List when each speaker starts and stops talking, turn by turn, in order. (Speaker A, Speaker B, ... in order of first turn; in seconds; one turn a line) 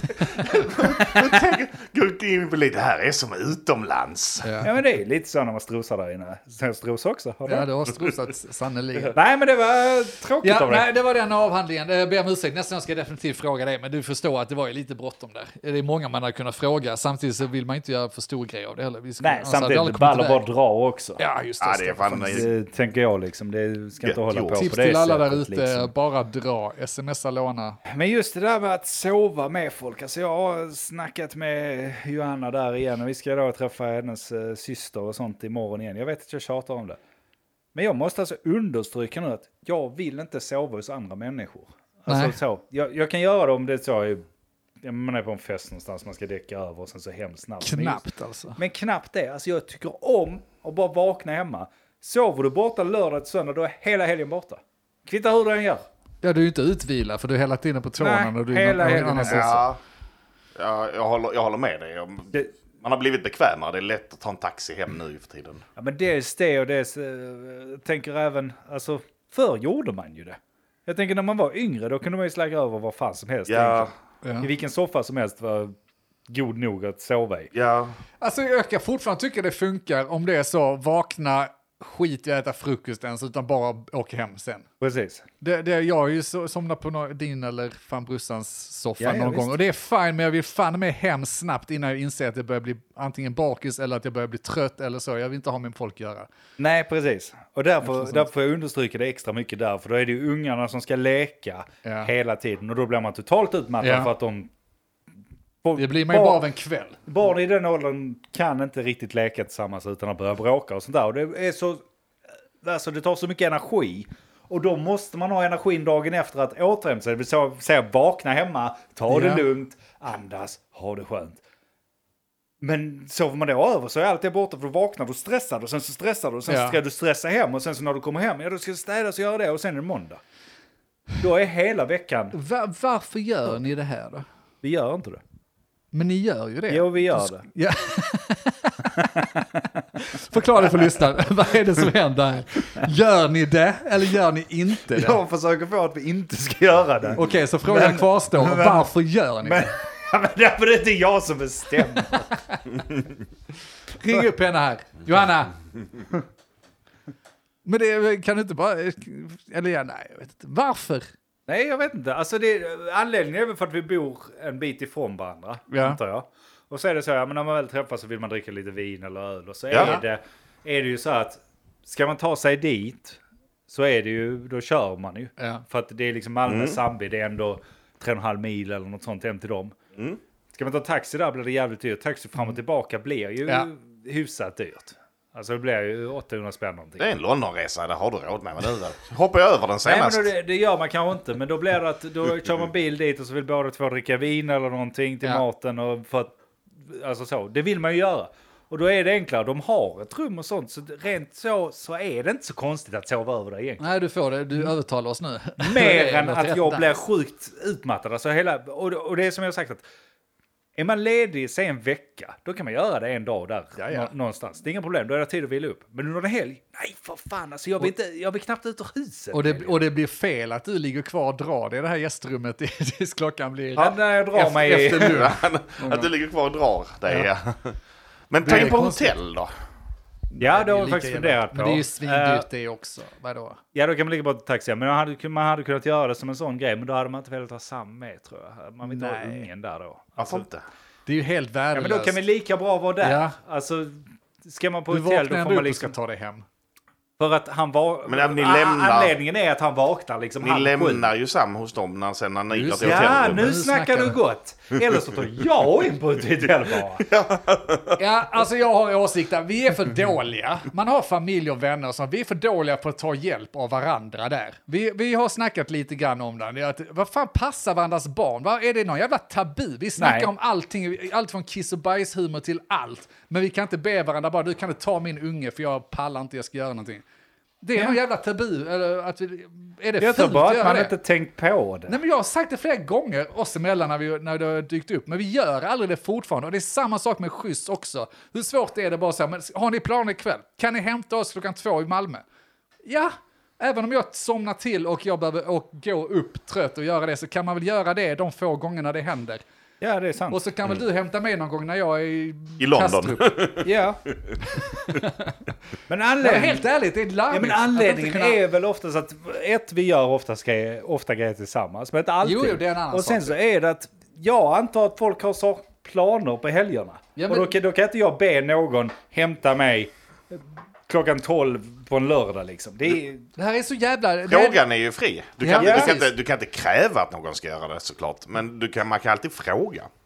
Speaker A: 0.2-1.1
Speaker B: 0.3-4.6
Speaker A: 4.4-4.7
Speaker C: 4.6-7.7
Speaker A: 7.5-9.2
Speaker C: 9.1-10.9
Speaker A: 10.4-20.4
Speaker C: 19.2-21.2
Speaker A: 21.2-22.5
Speaker B: 21.6-22.5
Speaker C: 22.3-25.9
Speaker B: 24.0-24.6
Speaker A: 24.6-27.8
Speaker C: 27.9-37.0
Speaker C: 37.7-44.2
Speaker A: 42.1-42.4
Speaker C: 44.8-48.0
Speaker A: 47.6-48.6
Speaker C: 48.6-55.8
Speaker A: 56.2-59.6
Speaker C: 58.0-59.6
Speaker B: 59.2-59.8
Speaker B: 60.5-65.6
Speaker C: 65.8-75.8
Speaker B: 73.5-73.9
Speaker A: 74.2-74.5
Speaker C: 76.3-77.5
Speaker B: 77.5-78.0
Speaker A: 78.2-84.7
Speaker C: 84.8-85.2
Speaker A: 85.4-96.3
Speaker C: 89.0-89.5
Speaker C: 96.6-104.5
Speaker A: 97.9-98.2
Speaker A: 101.8-102.1
Speaker A: 103.8-104.1
Speaker C: 105.6-106.4
Speaker A: 105.7-107.0
Speaker C: 107.0-111.8
Speaker C: 112.6-121.4
Speaker A: 119.1-119.4
Speaker C: 122.6-130.2
Speaker A: 126.5-126.8
Speaker C: 131.2-132.3
Speaker A: 132.3-134.2
Speaker C: 134.6-135.2
Speaker A: 135.9-139.2
Speaker C: 136.7-137.4
Speaker C: 139.0-139.8
Speaker A: 139.9-145.2
Speaker C: 144.9-148.9
Speaker A: 147.1-149.7
Speaker C: 149.4-152.3
Speaker A: 152.0-152.6
Speaker A: 153.9-155.5
Speaker A: 157.6-161.1
Speaker C: 161.5-179.8
Speaker A: 165.7-166.0
Speaker A: 169.7-170.0
Speaker A: 175.4-175.6
Speaker B: 176.5-176.8
Speaker C: 180.5-187.1
Speaker B: 187.0-190.3
Speaker C: 189.8-203.9
Speaker A: 203.8-207.0
Speaker C: 205.6-209.8
Speaker C: 210.8-219.8
Speaker A: 213.8-214.1
Speaker A: 219.3-226.1
Speaker C: 223.8-225.3
Speaker B: 224.9-227.8
Speaker B: 228.3-229.5
Speaker A: 228.4-229.1
Speaker A: 230.3-233.6
Speaker C: 230.4-232.4
Speaker C: 233.7-240.4
Speaker A: 238.8-239.5
Speaker B: 240.2-240.6
Speaker A: 241.1-242.2
Speaker C: 241.7-245.9
Speaker A: 243.0-243.3
Speaker A: 244.9-246.4
Speaker C: 247.2-251.1
Speaker B: 248.1-249.1
Speaker B: 250.4-253.5
Speaker A: 252.5-254.2
Speaker C: 252.7-257.1
Speaker B: 257.0-258.0
Speaker A: 258.0-277.0
Speaker C: 270.0-270.3
Speaker A: 277.6-280.9
Speaker C: 280.0-282.0
Speaker A: 281.9-292.2
Speaker A: 292.8-299.4
Speaker C: 299.8-300.4
Speaker A: 300.3-303.4
Speaker B: 302.6-303.7
Speaker C: 303.6-304.0
Speaker A: 304.5-305.4
Speaker C: 305.9-306.6
Speaker A: 306.2-308.4
Speaker C: 307.3-323.2
Speaker A: 312.2-313.3
Speaker A: 317.1-317.5
Speaker A: 323.4-324.6
Speaker B: 324.3-329.9
Speaker A: 325.4-326.1
Speaker C: 325.6-325.9